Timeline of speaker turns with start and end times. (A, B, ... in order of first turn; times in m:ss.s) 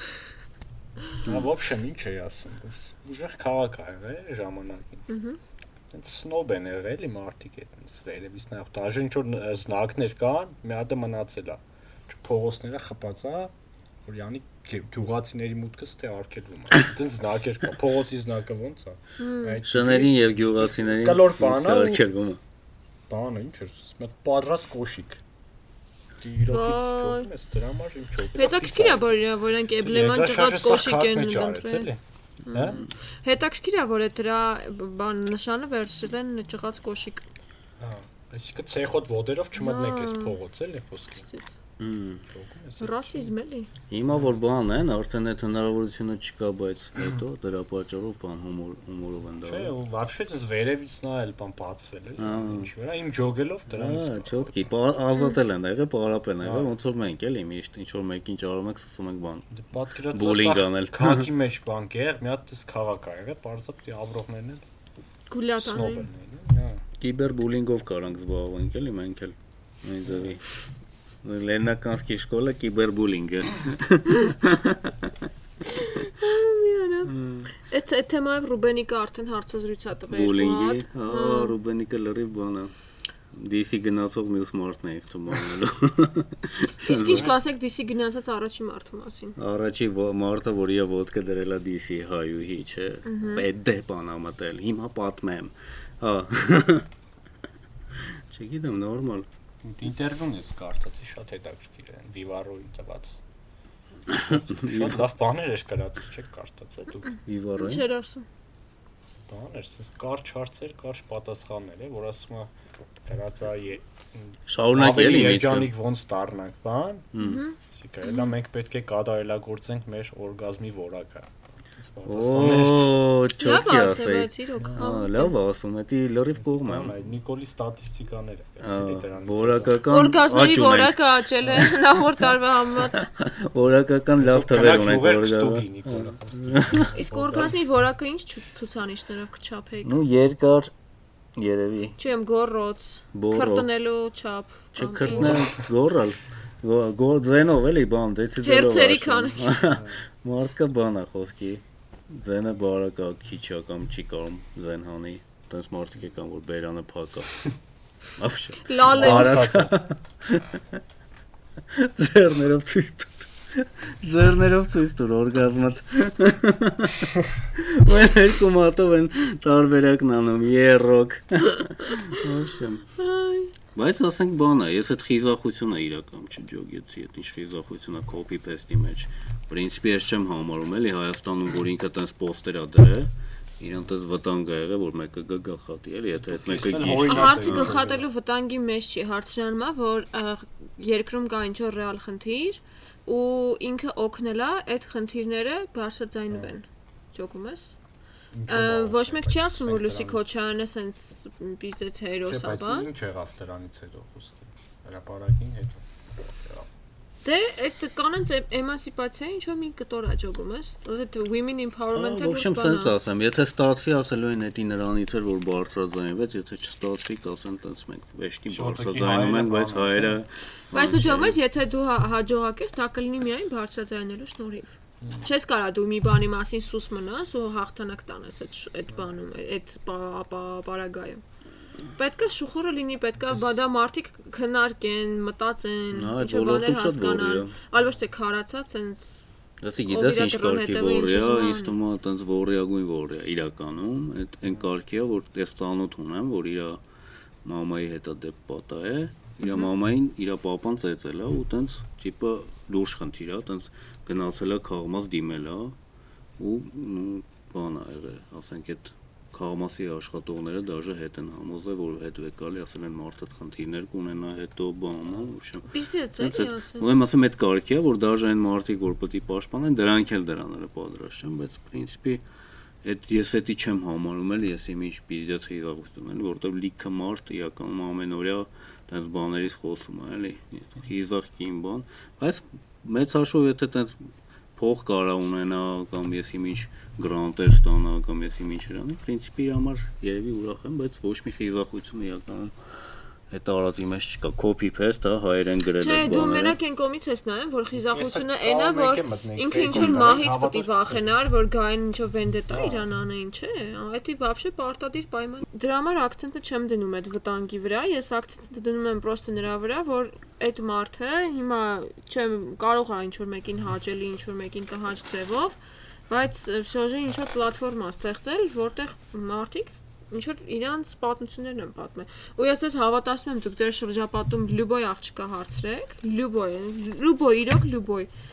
0:01.2-0:05.0 A
0:05.1-0:05.4 B
0:05.9-0:13.5 A
0:14.0-0:22.0 A
0:19.2-0:19.6 B
0:19.6-0:22.4 C
0:23.1-0:25.2 A
0:26.2-0:29.0 A
0:26.5-0:27.3 B
0:28.3-0:31.9 B
0:29.8-0:32.0 A
0:32.5-0:37.2 B
0:32.5-0:32.8 A
0:37.8-0:41.3 A
0:39.6-0:40.4 B
0:41.3-0:41.6 B
0:41.8-0:42.2 C
0:42.3-0:43.3 A
0:42.8-0:43.7 B
0:43.9-0:49.7 C
0:49.4-0:54.5 A
0:52.2-0:52.7 C
0:53.7-0:59.4 C
0:56.4-0:56.7 A
0:59.5-1:04.6 A
1:00.1-1:01.3 C
1:05.3-1:06.1 B
1:05.6-1:06.8 A
1:07.0-1:10.4 C
1:11.2-1:15.1 C
1:15.7-1:21.6 B
1:17.1-1:17.4 C
1:20.1-1:22.7 C
1:23.3-1:27.3 C
1:26.8-1:29.3 B
1:27.0-1:27.3 A
1:29.4-1:36.9 C
1:33.0-1:33.4 B
1:38.3-1:39.2 C
1:39.6-1:43.2 A
1:44.1-1:45.0 C
1:44.1-1:47.1 A
1:47.2-1:47.8 C
1:47.6-1:48.2 B
1:49.2-1:57.1 A
1:54.5-1:55.7 C
1:57.1-1:57.4 C
1:57.2-1:58.3 B
1:57.7-2:02.9 A
2:02.0-2:07.0 C
2:03.4-2:05.3 B
2:06.5-2:09.8 A
2:08.6-2:11.0 C
2:09.9-2:13.0 B
2:12.8-2:16.9 C
2:14.2-2:17.6 A
2:17.0-2:20.0 B
2:19.8-2:20.7 C
2:21.4-2:22.0 C
2:22.0-2:25.4 B
2:23.1-2:23.7 C
2:24.7-2:37.4 C
2:28.4-2:29.7 B
2:38.2-2:40.8 C
2:38.6-2:39.6 B
2:38.9-2:39.8 A
2:41.7-2:52.9 C
2:53.0-2:53.5 B
2:53.7-3:07.8 C
3:06.3-3:08.0 A
3:06.9-3:17.7 B
3:18.3-3:20.2 A
3:18.5-3:22.9 B
3:22.2-3:26.7 A
3:27.2-3:32.9 B
3:31.9-3:41.4 C
3:38.5-3:40.2 A
3:40.7-3:51.2 B
3:51.9-3:59.2 B
3:55.9-3:57.5 C
3:59.6-4:06.8 C
3:59.9-4:01.8 B
4:07.4-4:15.7 C
4:16.4-4:32.2 C
4:25.7-4:26.9 B
4:32.8-4:44.0 C
4:44.6-4:52.5 C
4:53.3-4:56.6 C
4:55.8-5:15.6 B
4:57.7-5:01.1 A
5:02.5-5:02.8 A
5:16.1-5:28.1 B